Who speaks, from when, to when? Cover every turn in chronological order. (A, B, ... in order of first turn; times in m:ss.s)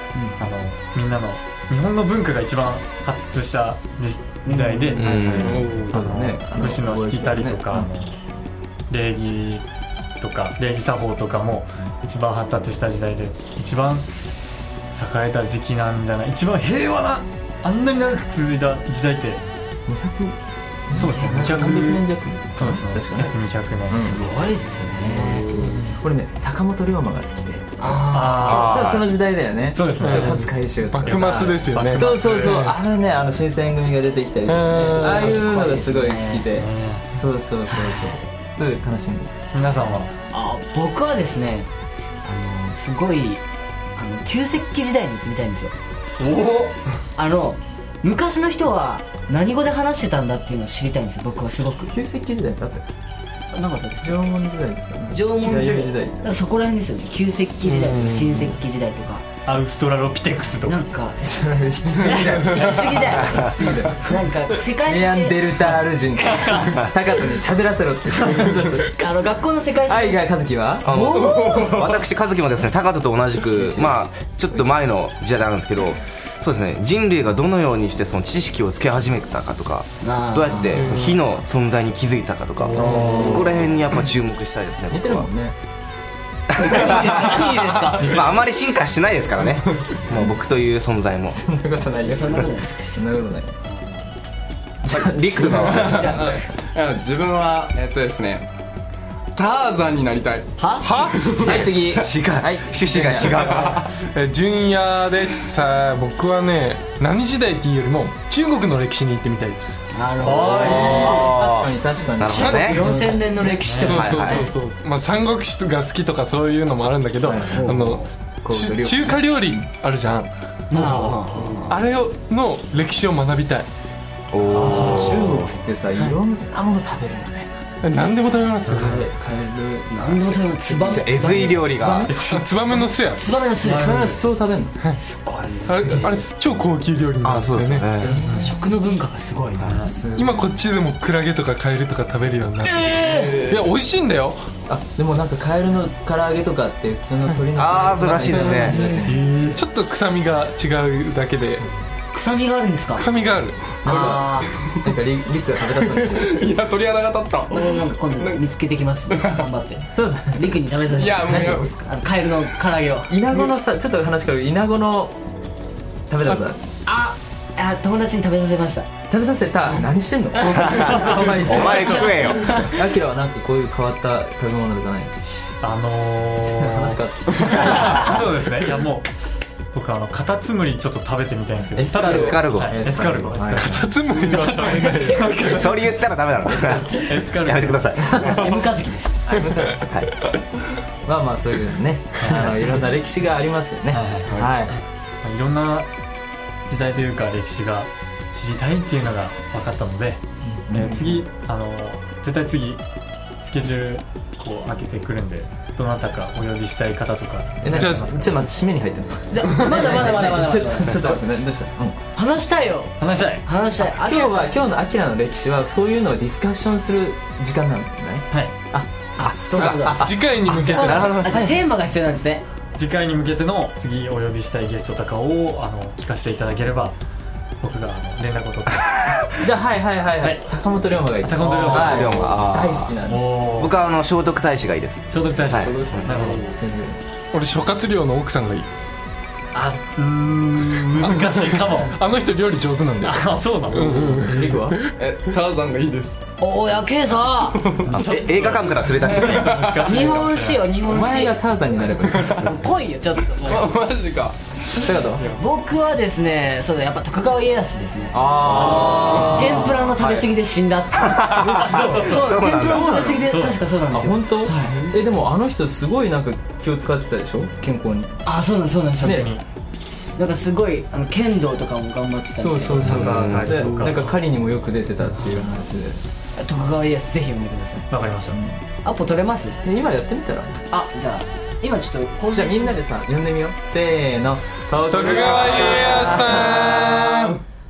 0:00.4-0:08.2 A
0:04.5-0:07.9 B
0:05.0-0:05.7 C
0:05.5-0:06.0 D
0:08.9-0:09.6 A
0:10.2-0:14.1 A
0:14.9-0:19.4 A
0:19.9-0:20.4 B
0:20.9-0:23.3 B
0:20.9-0:24.4 A
0:20.9-0:21.9 E
0:23.9-0:24.2 B
0:24.0-0:25.7 E
0:25.0-0:39.3 B
0:25.5-0:26.0 D
0:27.8-0:28.8 E
0:27.8-0:29.1 C
0:28.1-0:28.9 A
0:29.7-0:32.6 A
0:30.0-0:32.7 D
0:34.4-0:35.4 D
0:34.8-0:36.4 E
0:36.5-0:37.1 A
0:37.7-0:38.2 E
0:39.5-0:40.1 A
0:40.3-0:41.7 E
0:42.2-0:43.4 E
0:44.0-0:45.7 E
0:46.2-0:46.7 A
0:47.2-0:51.9 E
0:51.9-0:52.8 B
0:53.5-0:54.4 E
0:54.0-0:56.2 B
0:55.1-0:59.2 E
0:59.4-1:00.8 A
1:00.6-1:06.8 E
1:01.2-1:04.2 B
1:04.8-1:09.0 B
1:08.9-1:10.3 E
1:09.8-1:11.9 B
1:10.8-1:25.3 C
1:11.2-1:11.6 E
1:13.6-1:14.7 B
1:20.0-1:20.9 E
1:20.8-1:21.2 B
1:22.7-1:23.7 B
1:22.8-1:23.1 D
1:24.9-1:25.5 B
1:26.6-1:28.3 E
1:26.6-1:31.4 C
1:31.3-1:33.6 B
1:32.0-1:33.0 E
1:33.6-1:34.0 E
1:34.8-1:36.4 B
1:34.9-1:36.2 C
1:35.5-1:36.4 E
1:35.9-1:38.5 F
1:39.4-1:40.5 F
1:40.6-1:41.7 E
1:40.8-1:41.6 D
1:41.4-1:43.6 B
1:41.9-1:43.9 C
1:43.9-1:49.8 D
1:49.9-1:51.3 E
1:50.2-1:51.3 A
1:50.6-1:52.8 C
1:50.6-1:53.6 B
1:52.2-1:54.5 E
1:52.4-1:52.8 D
1:52.8-1:54.0 A
1:53.8-1:54.4 C
1:53.8-2:00.3 D
1:57.2-1:57.7 B
1:57.5-1:58.0 E
1:58.4-1:59.6 B
2:00.7-2:01.8 E
2:00.7-2:01.4 A
2:01.6-2:03.7 D
2:04.3-2:05.4 C
2:04.5-2:05.4 A
2:04.6-2:07.5 B
2:07.8-2:09.0 D
2:08.6-2:09.0 A
2:08.7-2:12.2 B
2:09.9-2:12.0 E
2:10.8-2:12.1 C
2:12.0-2:12.5 A
2:12.2-2:13.2 D
2:13.1-2:14.2 E
2:13.6-2:14.2 A
2:13.6-2:14.8 B
2:15.0-2:16.1 E
2:15.6-2:16.2 B
2:15.6-2:18.2 D
2:17.2-2:18.1 C
2:18.0-2:18.5 B
2:18.2-2:18.5 A
2:18.3-2:19.9 E
2:19.6-2:19.9 A
2:19.8-2:20.5 B
2:20.1-2:24.5 D
2:22.6-2:23.5 E
2:24.7-2:29.2 B
2:27.5-2:28.8 C
2:28.3-2:31.6 D
2:29.1-2:29.6 A
2:32.1-2:33.1 E
2:33.0-2:33.8 D
2:33.8-2:34.6 E
2:33.8-2:36.4 B
2:33.9-2:34.2 F
2:36.3-2:38.4 F
2:37.5-2:43.5 E
2:39.1-2:39.4 F
2:39.9-2:40.6 B
2:40.9-2:41.7 F
2:41.2-2:41.7 B
2:43.1-2:45.2 B
2:46.1-2:46.6 B
2:46.8-2:48.9 E
2:49.1-2:55.2 B
2:50.4-2:52.8 E
2:50.6-2:52.6 C
2:55.6-3:05.6 A
2:56.4-2:58.1 B
2:57.7-2:58.0 E
3:01.8-3:03.8 B
3:02.0-3:02.7 C
3:03.6-3:05.6 D
3:05.4-3:08.3 C
3:06.4-3:07.1 B
3:06.9-3:08.2 A
3:08.1-3:08.5 B
3:08.2-3:09.2 E
3:09.3-3:09.9 B
3:11.0-3:14.8 B
3:12.2-3:12.5 A
3:13.9-3:14.5 A
3:15.2-3:15.9 A
3:16.6-3:22.8 A
3:20.4-3:21.2 B
3:23.4-3:28.5 A
3:27.6-3:32.0 B
3:27.7-3:28.1 D
3:29.3-3:31.2 E
3:32.1-3:34.4 E
3:33.0-3:33.4 A
3:33.8-3:40.0 B
3:38.3-3:38.5 A
3:39.2-3:42.4 E
3:39.2-3:41.4 C
3:39.9-3:41.2 D
3:41.3-3:41.6 B
3:42.7-3:47.0 A
3:47.6-3:49.2 A
3:49.4-3:53.3 B
3:50.2-3:50.5 A
3:51.2-3:52.3 A
3:51.7-3:52.9 C
3:53.0-3:53.8 A
3:53.6-3:56.3 C
3:55.1-3:56.5 A
3:55.6-3:56.5 F
3:56.6-3:57.1 B
3:57.3-3:58.7 D
3:59.5-4:02.0 A
4:01.0-4:04.9 D
4:03.0-4:04.2 A
4:04.0-4:04.8 B
4:05.0-4:06.2 F
4:06.4-4:07.8 E
4:07.8-4:10.7 A
4:07.9-4:09.7 C
4:09.0-4:11.4 E
4:09.5-4:09.8 F
4:10.8-4:12.4 B
4:12.2-4:13.7 E
4:13.4-4:14.4 F
4:14.8-4:15.2 B
4:15.2-4:15.4 A
4:15.2-4:24.9 E
4:18.1-4:19.6 B
4:18.5-4:19.8 A
4:18.5-4:19.3 C
4:19.9-4:20.3 C
4:21.1-4:22.8 C
4:21.4-4:23.3 B
4:21.5-4:22.6 A
4:23.2-4:23.6 A
4:23.9-4:28.2 B
4:28.2-4:29.3 E
4:29.0-4:29.3 B
4:29.0-4:29.4 A
4:30.2-4:33.2 E
4:32.4-4:36.0 B
4:32.8-4:34.2 A
4:32.8-4:33.8 C
4:36.3-4:37.9 E
4:37.9-4:38.4 A
4:38.3-4:38.6 B
4:38.8-4:39.6 E
4:39.6-4:40.6 B
4:40.7-4:42.8 E
4:42.3-4:47.1 B
4:44.9-4:47.3 D
4:45.1-4:46.4 E